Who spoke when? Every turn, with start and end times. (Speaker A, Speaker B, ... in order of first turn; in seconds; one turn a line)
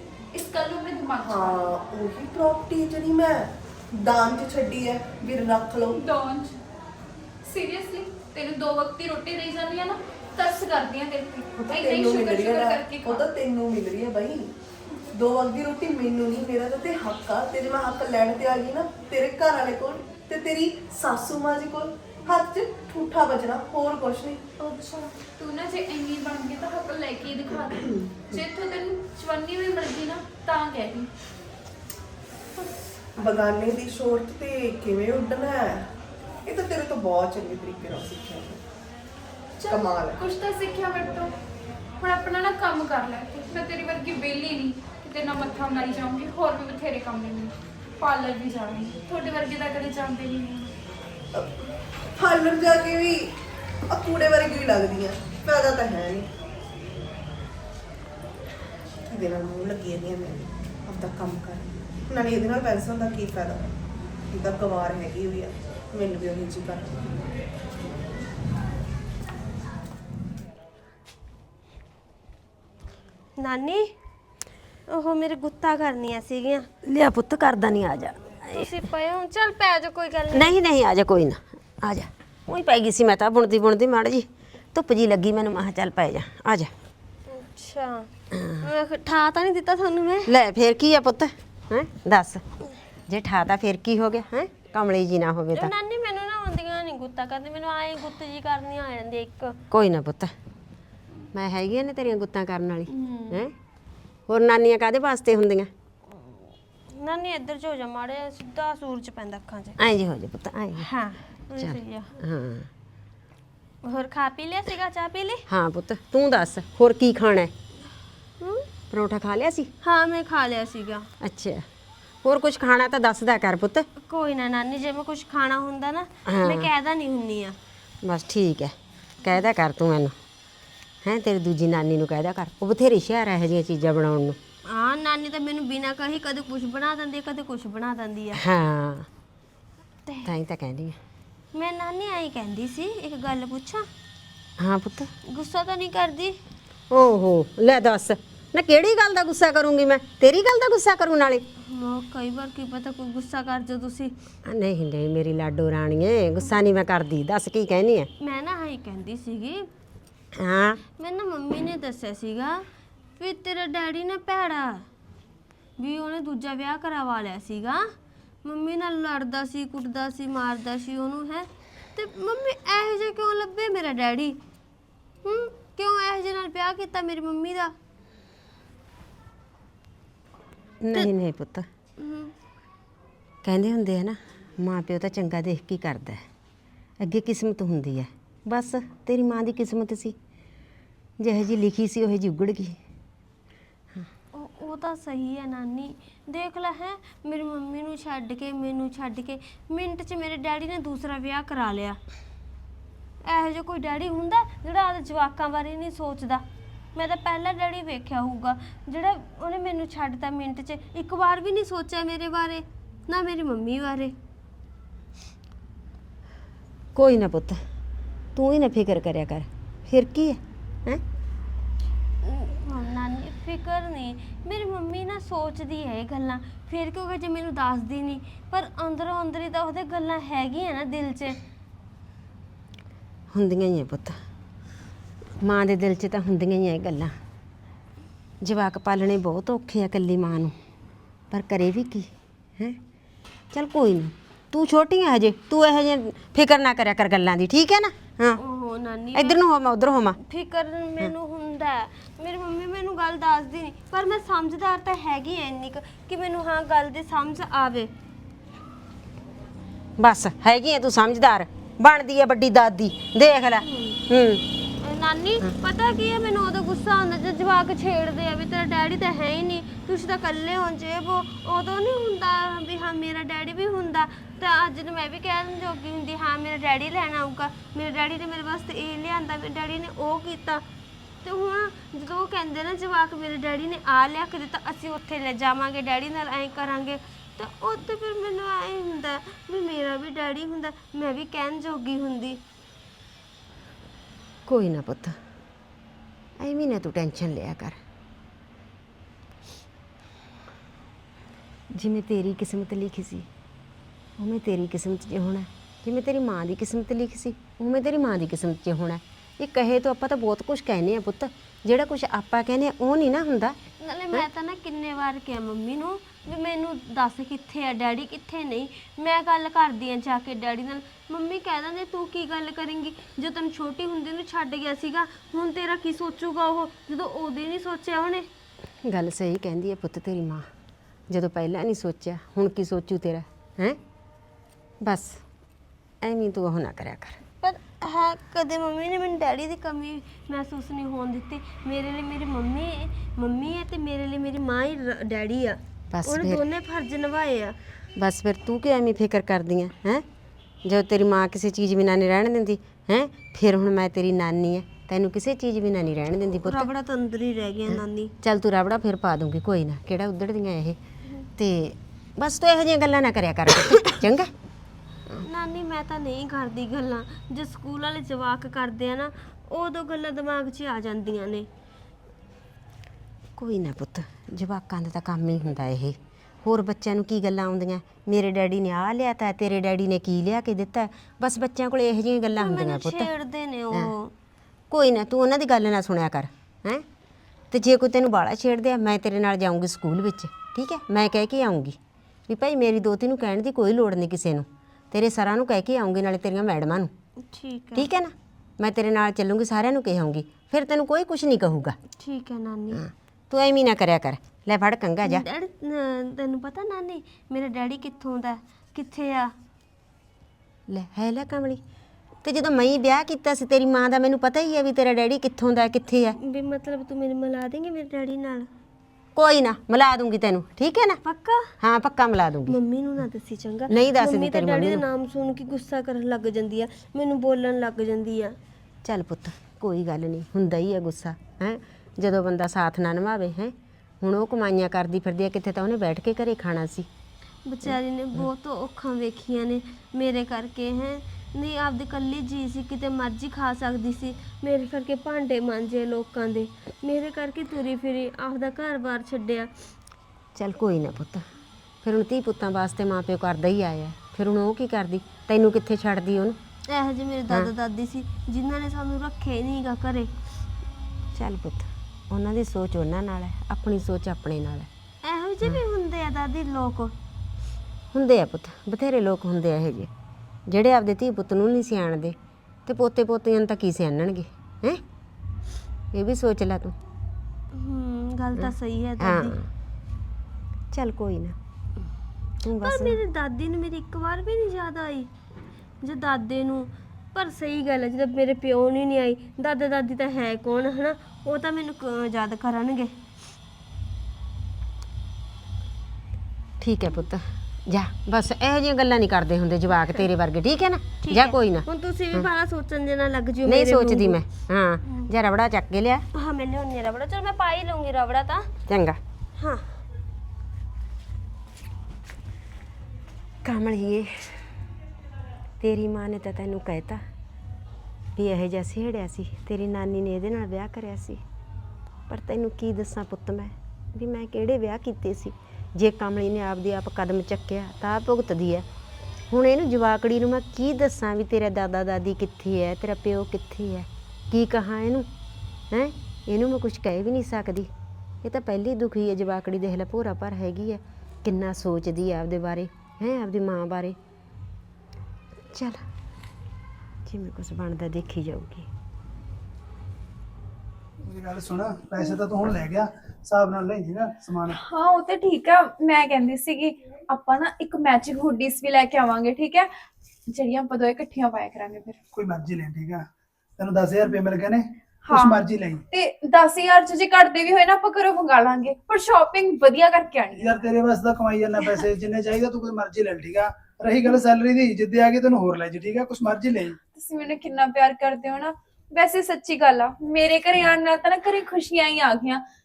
Speaker A: 0.3-1.7
Speaker B: 1.2-6.0
Speaker A: 5.9-6.6
Speaker A: 7.4-13.3
Speaker B: 11.6-14.5
Speaker B: 15.1-24.4
Speaker A: 24.6-31.1
Speaker B: 27.8-28.3
Speaker B: 33.2-35.9
Speaker B: 36.5-38.6
Speaker A: 39.6-41.4
Speaker B: 39.7-40.2
Speaker A: 42.0-50.7
Speaker B: 51.3-53.3
Speaker B: 53.9-56.3
Speaker B: 59.1-63.7
Speaker B: 64.3-66.9
Speaker C: 73.4-73.9
Speaker C: 74.9-76.7
Speaker D: 76.8-78.7
Speaker C: 78.5-80.5
Speaker D: 80.3-86.7
Speaker C: 87.3-88.1
Speaker D: 88.3-88.7
Speaker C: 88.6-90.3
Speaker D: 90.3-92.4
Speaker D: 93.1-95.7
Speaker C: 95.5-99.6
Speaker D: 99.7-100.3
Speaker D: 101.3-103.5
Speaker C: 102.9-103.4
Speaker D: 104.3-105.7
Speaker C: 106.9-109.8
Speaker D: 109.8-110.9
Speaker C: 110.8-112.1
Speaker D: 111.6-112.7
Speaker C: 113.8-115.5
Speaker D: 115.5-117.5
Speaker C: 118.4-118.7
Speaker D: 118.9-119.7
Speaker C: 119.8-121.1
Speaker D: 121.2-121.7
Speaker D: 122.2-123.9
Speaker C: 124.0-127.6
Speaker D: 126.3-126.7
Speaker D: 128.0-130.2
Speaker D: 131.0-134.4
Speaker C: 134.7-138.4
Speaker D: 138.4-139.1
Speaker C: 140.1-140.3
Speaker D: 140.2-141.0
Speaker C: 141.5-143.9
Speaker D: 144.6-145.1
Speaker C: 145.3-146.4
Speaker D: 146.9-151.4
Speaker C: 151.6-154.2
Speaker D: 154.4-158.1
Speaker C: 158.2-159.7
Speaker D: 160.4-160.8
Speaker C: 161.0-162.7
Speaker C: 163.2-164.9
Speaker C: 165.8-167.9
Speaker C: 168.4-174.4
Speaker C: 175.2-177.8
Speaker D: 180.8-181.7
Speaker C: 182.0-182.3
Speaker D: 183.4-186.2
Speaker D: 187.0-190.2
Speaker D: 191.2-192.8
Speaker C: 194.3-202.0
Speaker C: 203.2-206.4
Speaker C: 206.9-214.2
Speaker D: 216.9-217.6
Speaker D: 218.3-221.0
Speaker C: 222.2-231.4
Speaker D: 233.3-234.2
Speaker D: 235.4-237.2
Speaker D: 238.4-240.6
Speaker D: 241.3-242.8
Speaker D: 243.5-248.4
Speaker C: 248.4-249.4
Speaker D: 249.1-250.2
Speaker C: 250.2-257.9
Speaker D: 260.0-264.4
Speaker C: 263.6-264.0
Speaker C: 264.8-280.6
Speaker C: 281.2-292.4
Speaker D: 294.5-295.2
Speaker D: 296.4-297.8
Speaker D: 301.7-303.3
Speaker D: 304.2-313.6
Speaker C: 313.8-328.3
Speaker D: 328.9-330.5
Speaker D: 331.1-333.8
Speaker D: 334.8-335.2
Speaker D: 336.0-337.2
Speaker C: 337.4-347.6
Speaker D: 345.9-346.4
Speaker D: 348.0-350.1
Speaker D: 350.6-356.7
Speaker C: 356.4-358.1
Speaker D: 357.7-360.8
Speaker D: 361.4-364.3
Speaker C: 365.2-371.5
Speaker D: 373.4-383.1
Speaker C: 382.4-384.1
Speaker D: 384.7-386.9
Speaker D: 387.5-396.9
Speaker C: 397.3-397.9
Speaker D: 397.8-401.8
Speaker C: 402.0-402.9
Speaker D: 402.7-405.2
Speaker C: 405.0-409.3
Speaker D: 410.7-411.6
Speaker D: 412.2-416.2
Speaker C: 416.2-418.5
Speaker D: 419.1-421.0
Speaker C: 421.0-421.5
Speaker D: 421.6-422.6
Speaker C: 422.5-428.4
Speaker D: 423.7-424.8
Speaker D: 428.8-436.9
Speaker C: 437.5-449.5
Speaker D: 437.6-438.3
Speaker D: 450.4-451.2
Speaker D: 451.8-456.4
Speaker C: 456.7-460.1
Speaker D: 461.1-464.7
Speaker C: 465.0-466.9
Speaker D: 467.9-469.9
Speaker D: 470.5-474.8
Speaker D: 475.9-476.8
Speaker C: 477.5-479.4
Speaker D: 478.4-479.5
Speaker D: 480.7-481.4
Speaker D: 482.4-483.0
Speaker C: 482.6-485.1
Speaker C: 485.8-492.9
Speaker D: 496.6-502.3
Speaker C: 501.0-504.2
Speaker D: 503.4-506.1
Speaker C: 504.9-505.1
Speaker C: 506.1-508.5
Speaker D: 508.7-509.0
Speaker C: 509.4-509.6
Speaker D: 513.4-514.4
Speaker D: 515.6-517.0
Speaker D: 518.2-521.2
Speaker D: 522.1-528.7
Speaker D: 529.3-535.1
Speaker D: 535.7-537.7
Speaker D: 538.2-544.0
Speaker D: 545.5-545.8
Speaker D: 547.1-548.7
Speaker E: 551.0-554.6
Speaker A: 554.5-559.7
Speaker A: 560.3-562.0
Speaker E: 562.1-563.0
Speaker E: 563.6-565.8
Speaker A: 565.0-570.7
Speaker E: 570.4-576.8
Speaker A: 576.9-582.4